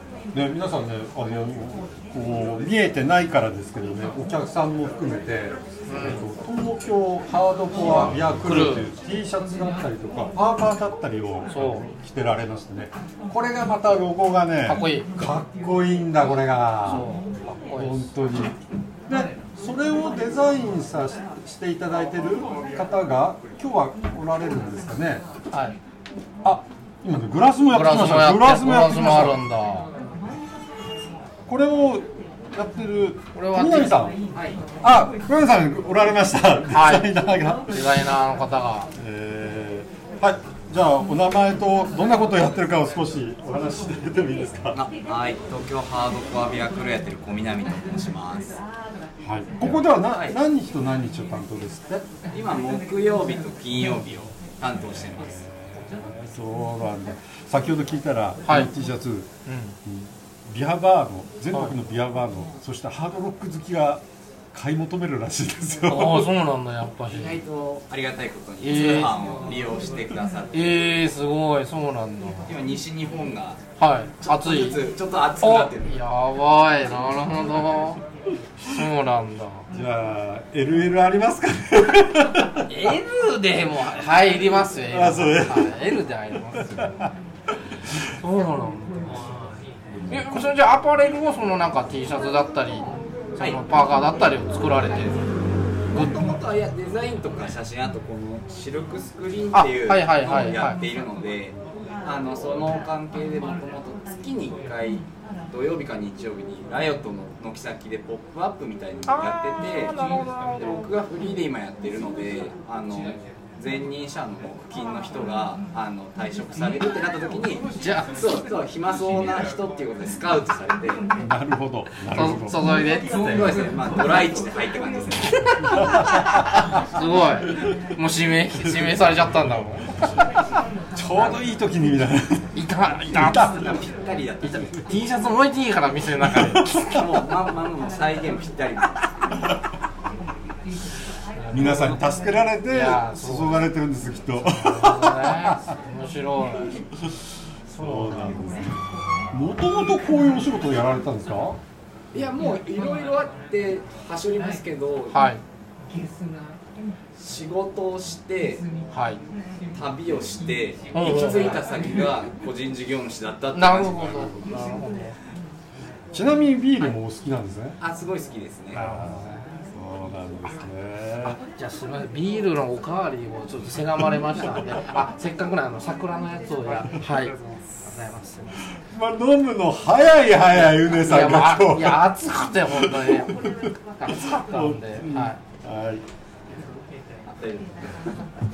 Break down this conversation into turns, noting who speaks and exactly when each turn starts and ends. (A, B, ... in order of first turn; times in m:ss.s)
0:00.3-0:17.1 A
0:05.9-0:06.2 B
0:07.8-0:08.9 B
0:11.5-0:11.8 B
0:14.7-0:15.1 B
0:16.8-0:18.1 B
0:17.8-0:25.2 A
0:25.5-0:25.8 B
0:26.4-0:29.4 A
0:27.7-0:29.9 B
0:31.5-0:34.2 A
0:33.3-0:34.0 B
0:34.3-0:34.6 C
0:34.8-0:37.9 A
0:36.7-0:37.1 B
0:37.7-0:38.9 B
0:39.0-0:44.8 A
0:44.7-0:48.6 C
0:49.2-0:52.0 A
0:49.6-0:50.4 C
0:52.3-0:55.4 C
0:55.0-0:59.3 A
0:58.4-0:58.7 B
0:59.5-0:59.8 B
0:59.8-1:06.3 A
1:05.8-1:07.4 B
1:07.0-1:11.1 C
1:08.6-1:09.2 B
1:10.5-1:12.6 B
1:12.5-1:13.6 C
1:13.8-1:18.0 B
1:14.2-1:16.0 C
1:18.7-1:19.7 B
1:19.7-1:22.7 A
1:22.7-1:26.9 B
1:24.9-1:25.8 A
1:26.5-1:27.1 A
1:28.2-1:29.2 B
1:30.1-1:30.5 A
1:30.1-1:35.2 B
1:35.9-1:50.0 C
1:39.5-1:40.8 B
1:49.1-1:50.8 B
1:50.6-2:01.0 C
1:57.8-1:58.1 B
2:01.2-2:02.6 A
2:02.1-2:03.6 B
2:03.1-2:05.4 C
2:05.4-2:10.1 B
2:05.6-2:06.8 A
2:08.6-2:09.4 A
2:11.0-2:12.6 A
2:12.5-2:13.6 B
2:13.1-2:13.7 A
2:13.4-2:14.8 C
2:14.4-2:17.0 B
2:16.2-2:17.0 A
2:16.8-2:19.0 C
2:21.4-2:22.0 B
2:21.5-2:25.7 A
2:22.7-2:23.6 B
2:24.5-2:26.8 B
2:27.7-2:28.6 B
2:27.8-2:28.8 A
2:29.3-2:31.6 A
2:32.1-2:35.3 C
2:35.1-2:35.4 B
2:37.2-2:38.7 C
2:38.9-2:39.2 B
2:39.7-2:44.4 C
2:40.9-2:41.6 B
2:43.5-2:45.2 B
2:46.1-2:47.8 A
2:47.8-2:48.9 C
2:48.7-2:51.4 A
2:48.7-2:49.5 B
2:51.2-2:58.6 B
2:58.8-3:02.2 A
3:01.0-3:05.4 B
3:02.7-3:06.0 A
3:07.3-3:08.0 C